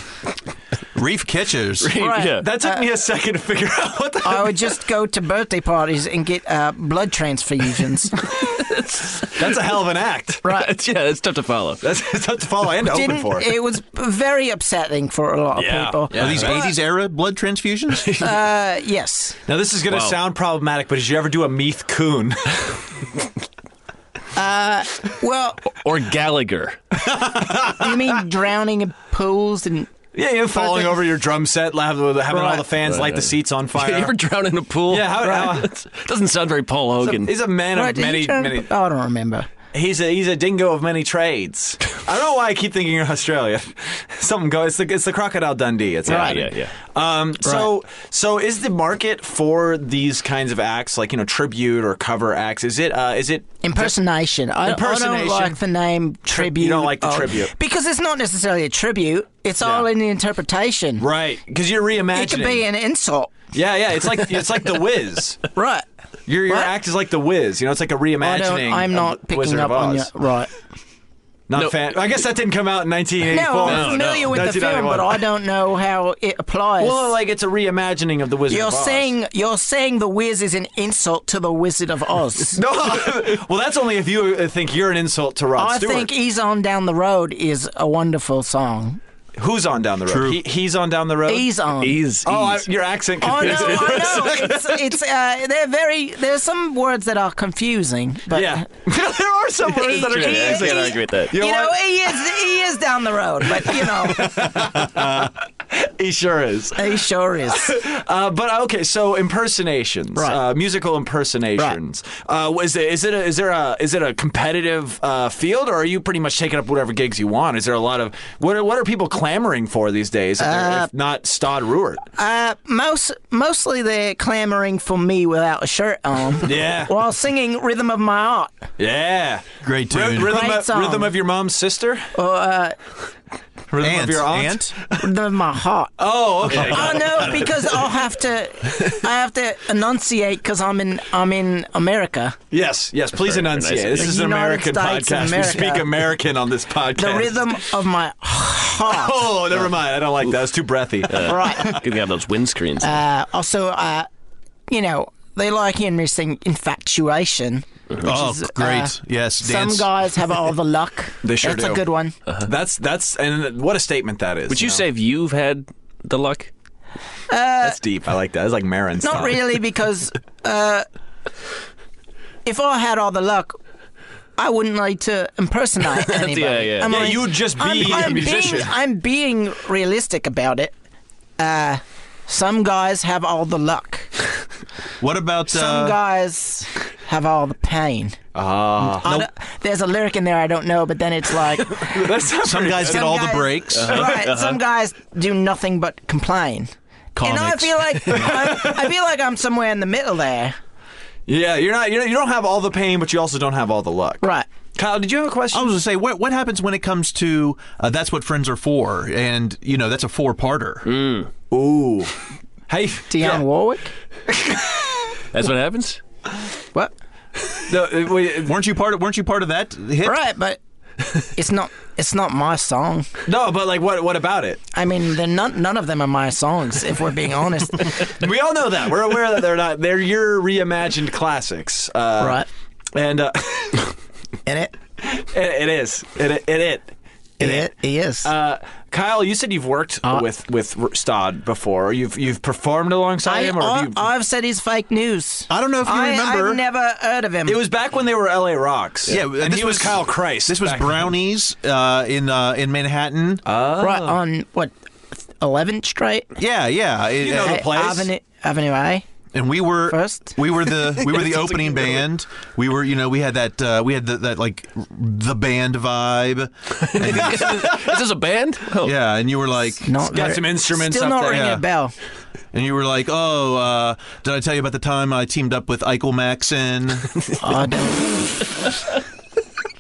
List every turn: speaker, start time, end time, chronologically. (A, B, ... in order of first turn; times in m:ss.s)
0:01.0-0:01.9 A
0:01.8-0:02.5 B
0:02.0-0:02.9 C
0:02.4-0:04.8 D
0:04.2-0:08.3 C
0:08.7-0:09.4 B
0:09.3-0:10.4 D
0:10.4-0:10.7 C
0:10.5-0:11.8 B
0:11.8-0:13.6 D
0:12.8-0:16.7 C
0:15.5-0:16.7 D
0:16.1-0:18.2 A
0:18.0-0:18.3 B
0:18.2-0:19.4 C
0:19.5-0:22.7 D
0:19.9-0:20.2 B
0:24.4-0:25.8 C
0:25.7-0:26.8 B
0:27.0-0:28.2 D
0:27.6-0:29.9 C
0:30.1-0:34.1 D
0:30.5-0:31.0 C
0:32.3-0:32.7 C
0:32.8-0:37.4 B
0:34.9-0:35.8 D
0:37.0-0:38.7 D
0:37.7-0:39.5 C
0:39.7-0:53.9 D
0:46.1-0:46.4 C
0:46.1-0:46.7 B
0:47.4-0:47.7 C
0:53.6-1:01.1 C
0:54.6-0:55.6 D
0:56.3-0:57.5 D
0:59.6-0:59.9 D
1:01.0-1:02.6 D
1:02.1-1:03.4 C
1:03.5-1:05.4 D
1:05.6-1:05.9 C
1:06.3-1:10.1 D
1:08.2-1:10.5 C
1:11.5-1:15.2 D
1:13.3-1:17.1 C
1:13.6-1:14.4 B
1:16.8-1:19.1 D
1:18.5-1:22.6 C
1:22.5-1:26.1 D
1:25.6-1:29.0 C
1:29.4-1:31.5 D
1:30.1-1:30.4 A
1:31.3-1:32.0 C
1:31.8-1:32.7 B
1:32.2-1:34.9 D
1:33.2-1:38.6 C
1:33.7-1:34.1 B
1:38.3-1:42.2 D
1:39.7-1:44.6 C
1:40.0-1:41.4 B
1:43.6-2:02.0 D
1:46.8-1:47.8 C
2:00.4-2:00.9 C
2:02.2-2:08.6 C
2:06.4-2:06.9 D
2:08.8-2:12.1 D
2:09.6-2:10.4 A
2:10.2-2:11.1 C
2:12.2-2:12.8 C
2:13.7-2:15.1 D
2:13.8-2:14.7 A
2:14.9-2:15.9 C
2:16.0-2:17.8 D
2:16.5-2:22.4 C
2:16.5-2:17.1 B
2:22.5-2:27.7 D
2:23.2-2:24.1 B
2:24.0-2:26.0 C
2:27.0-2:29.3 C
2:28.8-2:31.8 D
2:31.1-2:33.0 B
2:31.2-2:31.8 C
2:32.8-2:34.1 C
2:34.7-2:42.2 C
2:38.0-2:39.9 A
2:41.2-2:41.8 D
2:42.4-2:44.8 D
2:44.5-2:46.5 B
2:47.3-2:47.8 C
2:47.6-2:49.4 D
2:49.0-2:50.9 C
2:52.4-2:53.6 C
2:54.4-3:00.7 C
2:55.9-2:57.2 B
2:56.9-2:58.7 D
3:01.4-3:04.3 C
3:05.0-3:06.0 A
3:05.5-3:08.2 C
3:08.4-3:09.1 D
3:08.9-3:12.1 C
3:11.8-3:13.2 D
3:12.4-3:14.0 A
3:12.8-3:20.6 C
3:13.8-3:14.6 B
3:17.2-3:18.0 A
3:18.1-3:18.9 D
3:21.3-3:25.7 D
3:24.2-3:24.5 C
3:25.5-3:30.9 A
3:30.9-3:31.3 B
3:31.5-3:32.1 D
3:32.7-3:33.4 D
3:33.1-3:33.9 C
3:34.3-3:34.8 D
3:35.3-3:36.0 B
3:37.7-3:38.6 D
3:38.4-3:40.2 A
3:40.0-3:40.6 C
3:41.4-3:43.1 C
3:43.3-3:44.6 D
3:44.7-3:48.1 C
3:48.0-3:52.4 D
3:52.2-3:52.5 C
3:53.0-3:54.0 D
3:54.5-3:54.7 C
3:55.0-3:57.7 D
3:57.4-3:58.3 C
3:58.2-4:04.0 D
4:03.2-4:07.6 C
4:05.5-4:06.6 A
4:07.5-4:11.1 D
4:09.1-4:13.4 A
4:13.4-4:14.2 D
4:13.8-4:14.7 C
4:15.4-4:16.3 C
4:16.4-4:17.6 A
4:17.2-4:18.1 D
4:17.4-4:19.0 C
4:19.3-4:27.8 A
4:19.9-4:20.4 C
4:26.8-4:29.0 B
4:28.8-4:29.9 A
4:29.8-4:31.9 C
4:30.1-4:31.6 D
4:31.3-4:31.6 A
4:32.5-4:37.1 A
4:37.4-4:38.2 C